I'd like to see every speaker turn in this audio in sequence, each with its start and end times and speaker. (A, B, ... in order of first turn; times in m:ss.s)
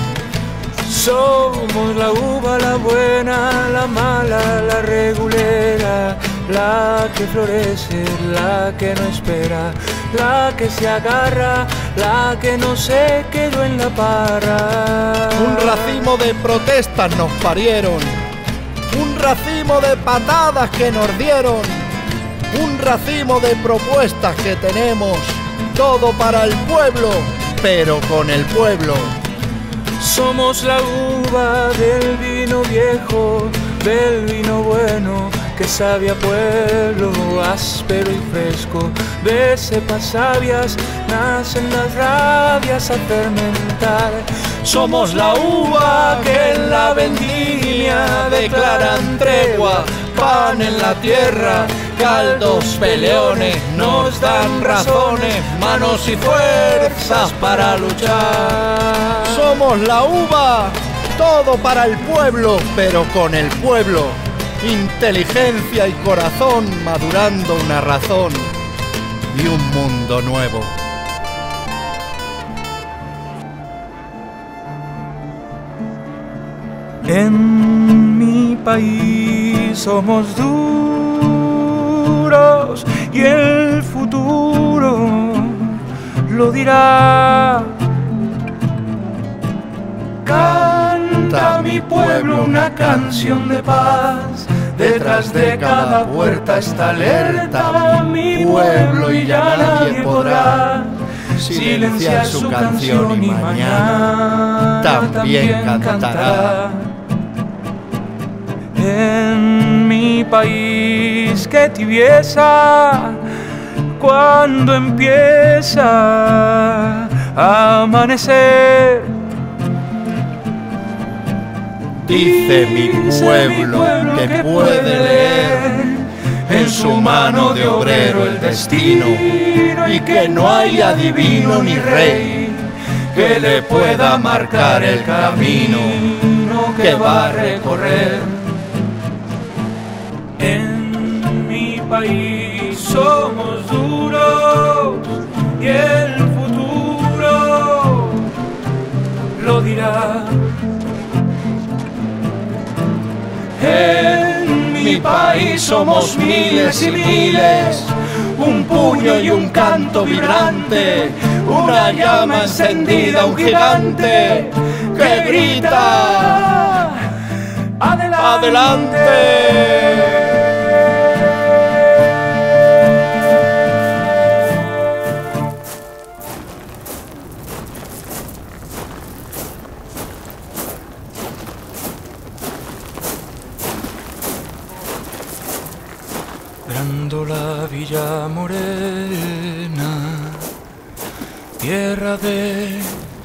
0:00.8-0:16.1 A
0:15.3-0:18.2 B
0:18.9-0:21.9 B
0:22.5-0:29.1 B
0:30.0-0:59.6 A
0:44.6-0:58.6 B
0:59.2-1:08.5 B
1:09.3-1:10.7 B
1:17.0-1:27.8 A
1:30.2-1:47.0 A
1:30.3-1:33.7 B
1:34.8-1:40.7 B
1:41.3-1:44.1 B
1:44.8-1:46.6 B
1:48.7-1:59.2 A
2:02.0-2:18.4 A
2:02.0-2:05.7 B
2:06.5-2:12.4 B
2:13.1-2:16.1 B
2:16.8-2:18.1 B
2:20.4-2:28.4 A
2:29.3-2:30.5 A
2:33.6-2:47.1 A
2:34.7-2:37.9 B
2:38.4-2:46.8 B
2:47.8-2:50.4 A
2:48.2-2:50.4 B
3:06.6-3:10.5 A
3:11.6-3:13.0 A